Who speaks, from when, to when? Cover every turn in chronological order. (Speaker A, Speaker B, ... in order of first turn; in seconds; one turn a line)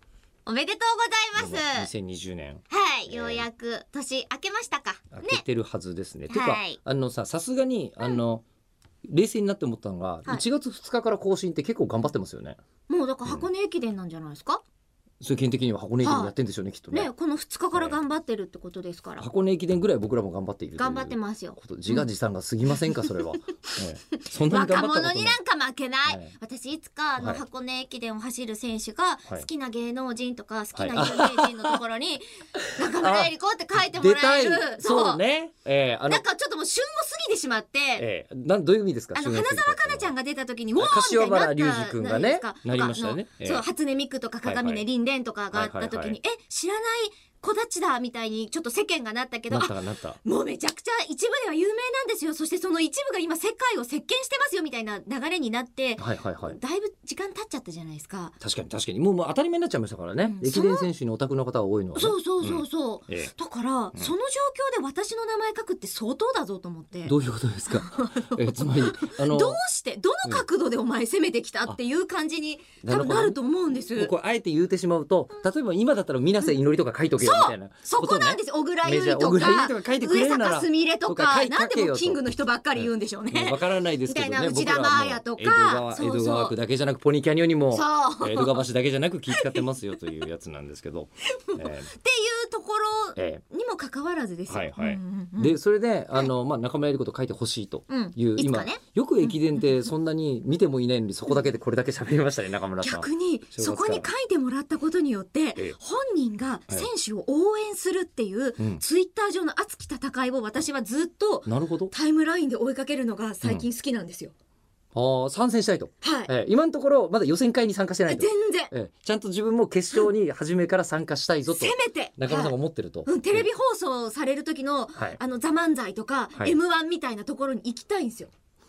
Speaker A: 0.5-1.9
Speaker B: 1.3-3.5
Speaker A: 2.7-5.4
Speaker B: 5.1-8.4
Speaker A: 6.3-6.8
Speaker B: 9.1-12.6
Speaker A: 12.9-14.6
Speaker B: 15.2-17.1
Speaker A: 16.0-16.3
Speaker A: 16.9-19.2
Speaker B: 19.2-25.4
Speaker A: 20.8-22.1
Speaker A: 22.7-23.8
Speaker A: 24.5-32.2
Speaker B: 26.1-26.3
Speaker B: 30.7-31.8
Speaker B: 32.6-36.2
Speaker A: 32.7-35.2
Speaker A: 36.1-38.0
Speaker B: 38.0-40.1
Speaker A: 39.1-58.3
Speaker B: 40.8-43.6
Speaker B: 44.4-44.8
Speaker B: 45.5-46.2
Speaker B: 49.5-50.2
Speaker B: 56.0-56.6
Speaker B: 58.4-63.3
Speaker A: 60.2-60.9
Speaker A: 61.9-67.1
Speaker B: 67.0-69.6
Speaker A: 67.7-74.1
Speaker B: 72.8-73.4
Speaker B: 74.0-82.2
Speaker A: 77.2-86.5
Speaker B: 82.7-91.9
Speaker A: 87.7-88.6
Speaker A: 89.3-89.8
Speaker A: 91.3-95.5
Speaker B: 93.2-93.4
Speaker B: 94.5-104.1
Speaker A: 97.9-99.9
Speaker A: 102.8-114.3
Speaker B: 111.5-111.9
Speaker B: 114.9-123.5
Speaker A: 116.0-116.3
Speaker A: 118.1-118.7
Speaker A: 121.5-122.5
Speaker A: 123.0-128.3